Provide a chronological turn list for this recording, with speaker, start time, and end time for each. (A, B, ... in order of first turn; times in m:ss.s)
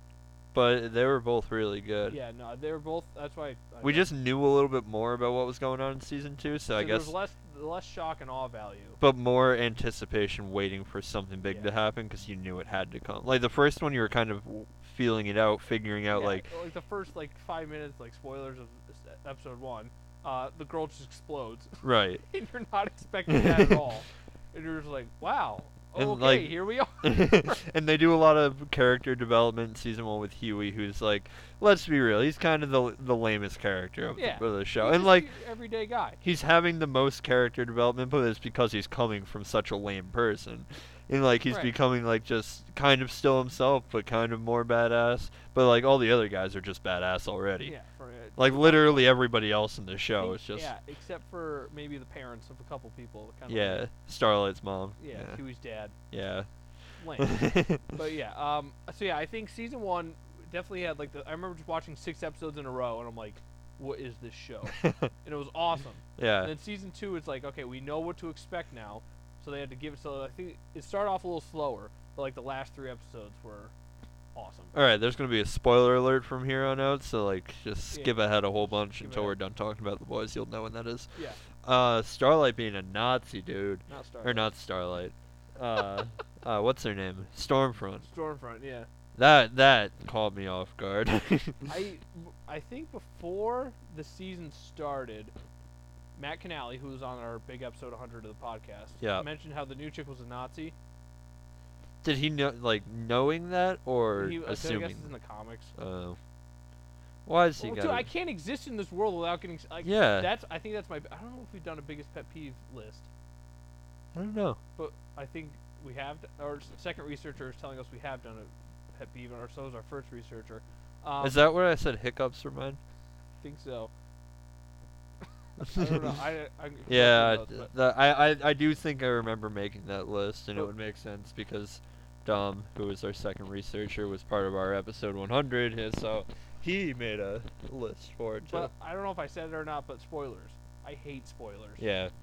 0:00.5-0:02.2 A
0:02.1-0:04.1 B
0:03.8-0:07.1 A
0:06.7-0:09.0 B
0:09.0-0:16.5 A
0:11.4-0:11.7 B
0:16.1-0:27.6 B
0:21.8-0:22.2 A
0:23.3-0:23.8 A
0:26.0-0:35.3 A
0:34.2-0:36.2 B
0:36.2-0:47.8 A
0:41.5-0:41.7 B
0:47.6-0:49.1 B
0:48.4-0:50.7 A
0:50.2-0:53.9 B
0:53.5-0:55.4 A
0:55.0-0:56.0 B
0:56.1-0:56.5 A
0:57.0-1:13.7 B
0:57.2-0:57.8 A
1:04.8-1:05.1 A
1:06.2-1:06.5 A
1:14.4-1:14.7 B
1:14.7-1:21.1 A
1:17.9-1:19.4 B
1:21.2-1:21.4 B
1:21.6-1:28.1 A
1:23.9-1:24.5 B
1:28.0-1:28.9 B
1:29.2-1:31.7 A
1:31.7-1:35.3 B
1:36.2-1:40.8 B
1:39.0-1:39.3 A
1:42.0-1:45.1 A
1:44.1-1:45.8 B
1:45.8-1:46.2 A
1:47.3-1:48.1 A
1:47.6-1:53.1 B
1:49.8-1:50.3 A
1:54.1-1:54.6 A
1:54.8-2:01.4 B
2:01.2-2:02.8 A
2:03.4-2:03.9 B
2:05.6-2:07.7 B
2:05.6-2:06.1 A
2:06.9-2:18.7 A
2:18.5-2:21.9 B
2:21.8-2:22.1 A